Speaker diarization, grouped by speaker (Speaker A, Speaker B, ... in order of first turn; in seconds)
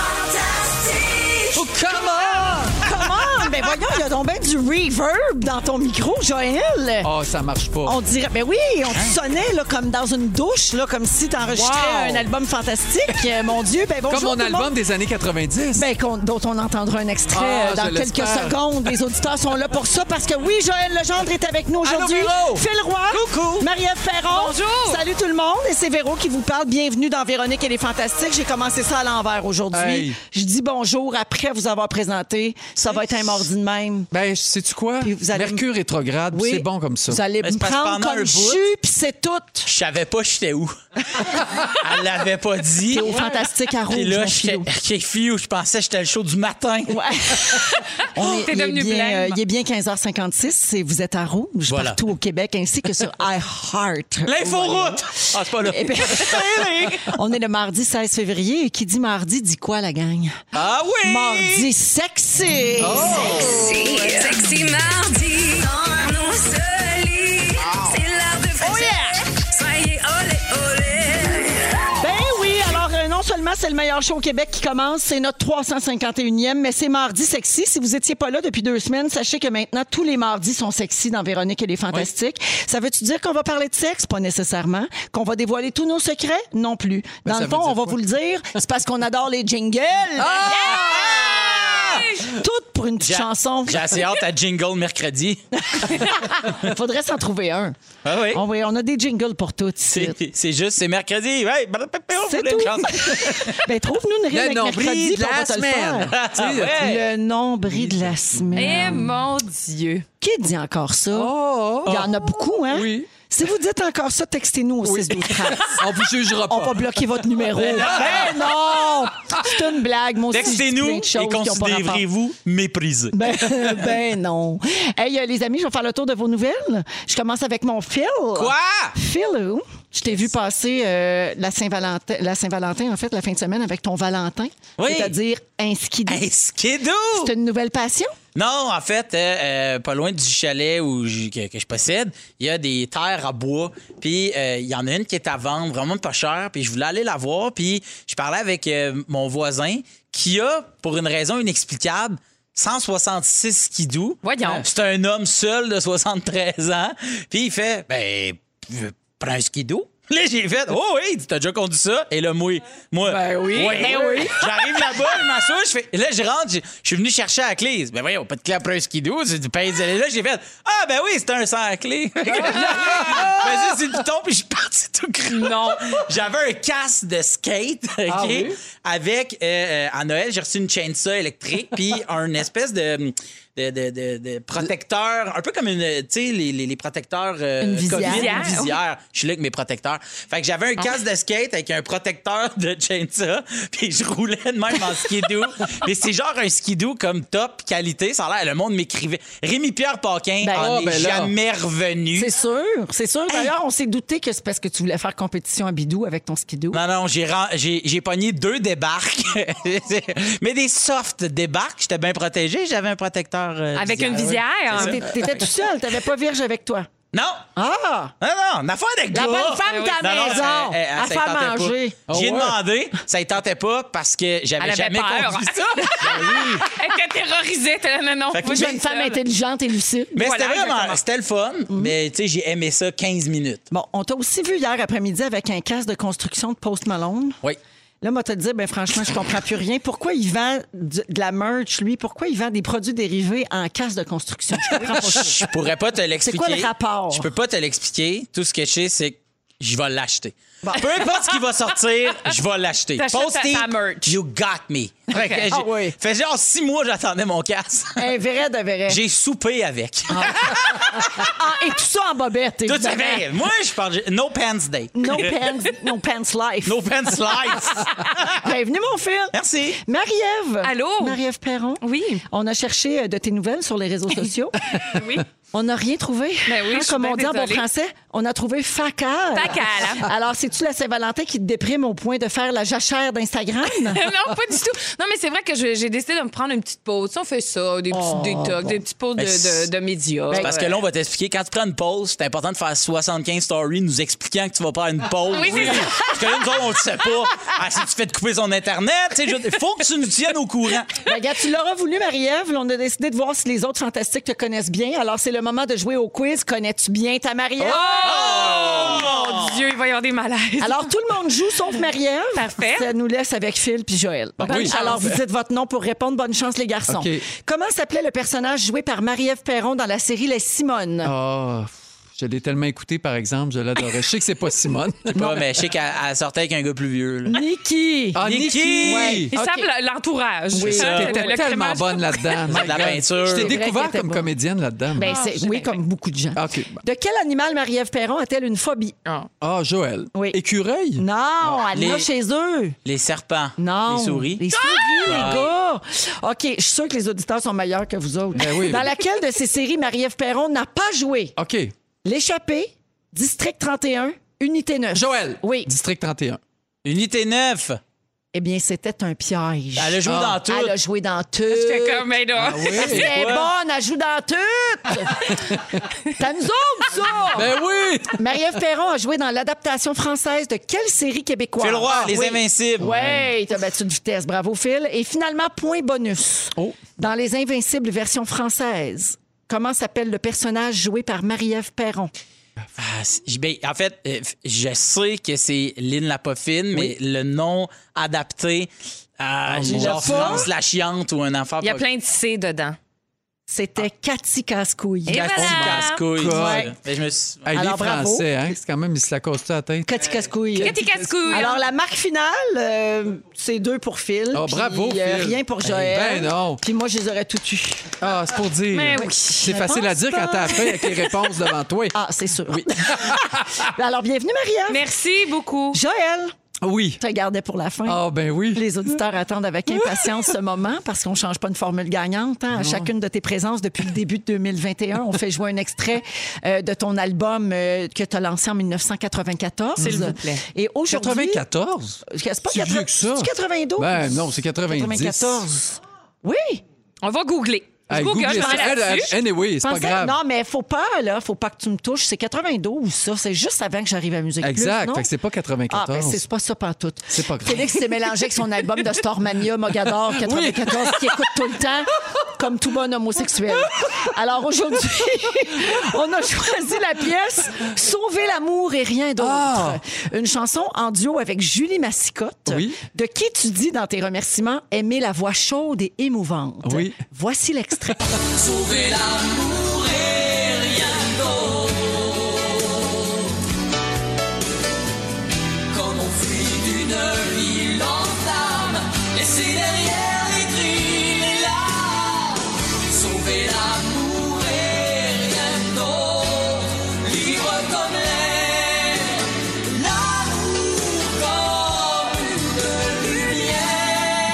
Speaker A: 0.4-1.5, 63.1-72.0
Speaker B: 1.5-2.9, 7.0-8.0, 11.5-12.2, 14.1-15.9, 17.3-18.6, 21.8-22.7, 29.7-30.2, 34.1-37.2, 62.8-63.7, 87.2-88.0, 90.2-91.1, 104.3-106.9, 107.7-109.0, 111.1-112.1, 112.7-113.1, 114.8-117.0, 163.1-164.3, 172.4-173.7, 178.1-178.6, 200.6-201.3, 214.1-214.4, 222.1-222.6, 314.4-315.2, 316.9-317.2, 321.0-325.5, 328.1-329.3, 330.6-335.1, 336.3-336.8, 339.4-341.0, 348.3-348.9, 351.4-351.7, 354.9-356.4, 360.1-360.4, 362.3-363.1, 367.3-368.4, 372.8-373.3, 389.5-390.5, 395.4-396.7, 397.4-399.9, 404.3-406.6, 408.0-412.0, 412.5-413.7, 416.6-417.0, 417.9-418.7, 419.7-420.1, 422.6-422.9, 429.8-430.1, 430.9-435.4, 437.9-440.1, 444.4-446.2, 447.1-447.8, 450.1-451.1, 459.2-459.8, 462.5-462.8, 466.6-467.0
Speaker C: 2.7-7.1, 7.8-14.7, 15.7-34.1, 35.0-35.6, 36.3-39.7, 42.9-44.7, 46.9-60.4, 61.0-63.5, 68.6-69.2, 72.0-94.1, 95.6-97.8, 98.3-100.2, 102.2-109.1, 110.2-122.0, 123.1-136.3, 137.2-138.1, 163.6-164.4, 187.6-188.6, 200.4-200.8, 202.1-206.8, 214.7-216.9, 217.6-218.1, 219.1-222.0, 226.1-226.6, 228.4-230.3, 233.7-237.4, 238.0-245.5, 246.2-247.3, 255.1-255.9, 257.9-259.0, 260.1-263.3, 264.9-284.1, 287.9-288.8, 290.3-290.6, 301.0-308.9, 310.6-321.1, 325.2-325.4, 327.3-328.3, 328.8-329.7, 330.6-331.0, 333.2-334.3, 334.9-338.9, 340.1-340.4, 340.9-342.8, 343.6-351.3, 352.0-355.7, 358.3-362.1, 362.8-367.6, 368.1-382.1, 389.6-390.5, 393.5-395.6, 396.2-396.7, 397.5-398.6, 399.8-408.0, 408.9-411.3, 411.9-414.9, 415.7-416.3, 417.0-431.4, 432.1-436.6, 438.2-439.1, 439.6-445.1, 445.7-468.1
Speaker D: 23.3-23.6, 32.8-33.3, 37.4-38.6, 39.7-43.2, 43.9-47.7, 51.7-52.0, 54.2-57.1, 60.5-61.7, 63.1-63.5, 90.5-92.1, 93.0-96.0, 98.0-98.4, 99.9-103.6, 106.1-107.0, 117.6-118.4, 120.3-123.6, 128.3-128.9, 134.8-135.1, 136.1-137.3, 138.3-202.3, 206.7-215.3, 217.1-217.5, 218.2-226.6, 228.3-228.7, 230.1-233.6, 244.9-258.1, 258.9-261.3, 262.6-265.4, 266.6-268.5, 269.3-269.8, 289.2-289.7, 290.4-301.0, 308.0-309.6, 325.1-327.4, 328.2-329.3, 330.6-331.2, 332.5-333.6, 341.7-342.1, 342.8-344.4, 345.0-345.5, 356.8-357.8, 359.8-360.8, 362.7-363.5, 371.6-372.9, 382.8-391.8, 395.1-397.4, 468.4-472.1, 475.7-482.3, 482.9-489.1, 489.7-492.2, 493.1-493.7
Speaker E: 24.3-25.0, 48.1-49.4, 90.5-92.4, 108.5-110.0, 154.2-154.6, 163.8-164.4, 172.6-173.0, 175.3-176.0, 188.0-188.8, 213.7-215.0, 219.7-220.4, 224.6-229.2, 230.2-231.0, 253.0-254.2, 270.6-271.2, 271.8-272.2, 274.9-275.2, 276.5-277.6, 279.3-280.1, 283.9-290.7, 295.3-296.4, 307.6-310.9, 312.3-312.9, 314.4-315.1, 329.3-332.4, 335.0-335.7, 344.5-345.4, 361.5-362.9, 391.6-392.8, 395.1-396.0, 400.6-401.6, 408.7-409.7, 414.7-415.8, 429.8-430.4, 437.0-439.1